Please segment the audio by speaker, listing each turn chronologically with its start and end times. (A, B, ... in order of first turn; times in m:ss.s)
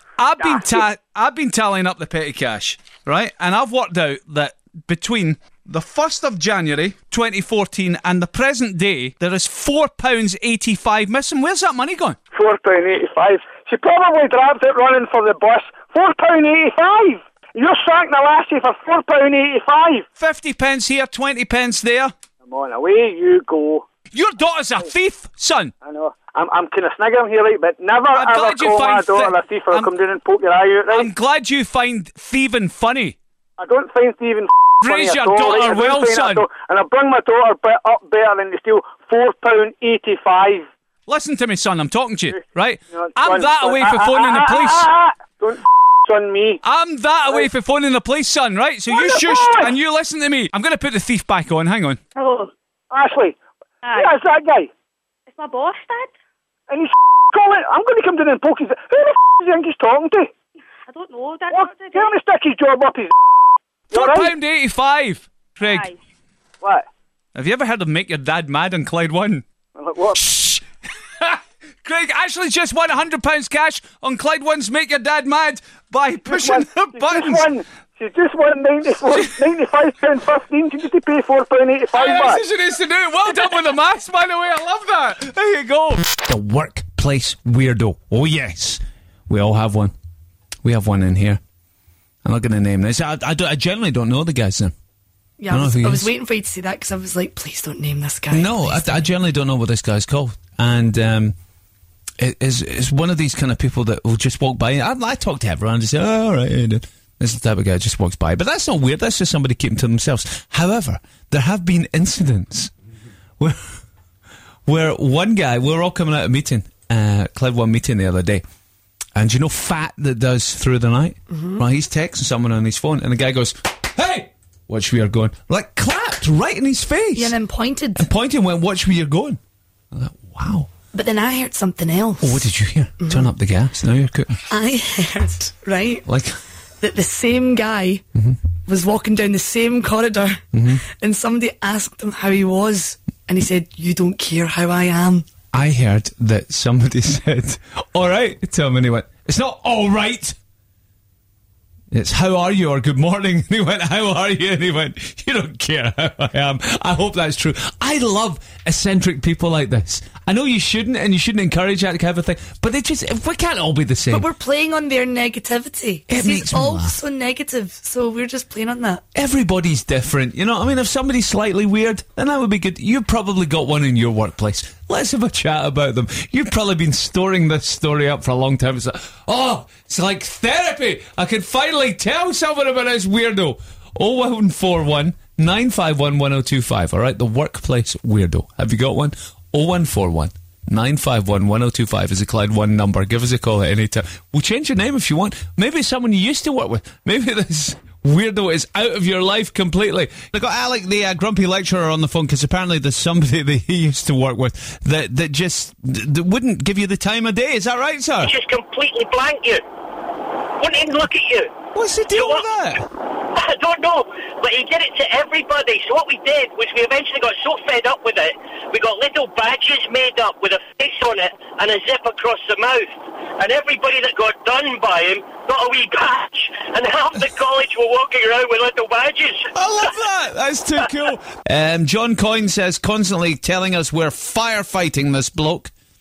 0:00.2-0:12.2 A
0:12.3-0:20.0 B
0:20.2-0:22.1 A
0:22.4-0:23.8 B
0:24.1-0:25.7 A
0:25.8-0:31.1 B
0:28.1-0:29.9 A
0:30.9-0:33.2 A
0:33.6-0:40.6 B
0:34.8-0:36.4 A
0:41.1-0:44.9 A
0:42.9-0:46.6 B
0:46.6-0:52.0 A
0:48.9-0:49.7 B
0:52.2-0:52.5 C
0:52.9-0:53.4 B
0:53.8-0:54.1 C
0:53.9-0:54.7 B
0:55.3-0:56.1 C
0:56.7-1:00.3 B
1:00.9-1:02.1 C
1:01.5-1:03.1 B
1:03.9-1:04.3 B
1:03.9-1:05.9 A
1:05.6-1:06.0 C
1:06.6-1:06.8 B
1:07.3-1:09.4 A
1:09.8-1:10.2 B
1:10.1-1:10.6 A
1:11.2-1:17.5 A
1:16.3-1:22.4 B
1:21.9-1:29.9 A
1:30.6-1:31.4 A
1:32.2-1:34.7 A
1:35.4-1:39.1 D
1:35.5-1:36.1 A
1:38.3-1:41.3 A
1:42.2-1:52.7 A
1:54.7-1:58.4 A
1:59.2-2:07.4 A
2:07.1-2:08.0 D
2:08.0-2:09.4 A
2:09.9-2:10.7 A
2:10.9-2:12.4 D
2:12.2-2:14.3 A
2:14.5-2:16.0 D
2:16.0-2:16.3 A
2:16.8-2:18.0 D
2:18.6-2:25.2 D
2:20.5-2:20.8 A
2:25.5-2:30.4 A
2:31.9-2:44.3 A
2:44.1-2:49.0 D
2:46.1-2:46.9 A
2:49.1-3:28.3 A
3:28.2-3:29.6 E
3:30.6-3:31.5 E
3:31.7-3:32.9 A
3:32.2-3:32.4 E
3:33.3-3:49.5 E
3:49.5-3:55.7 A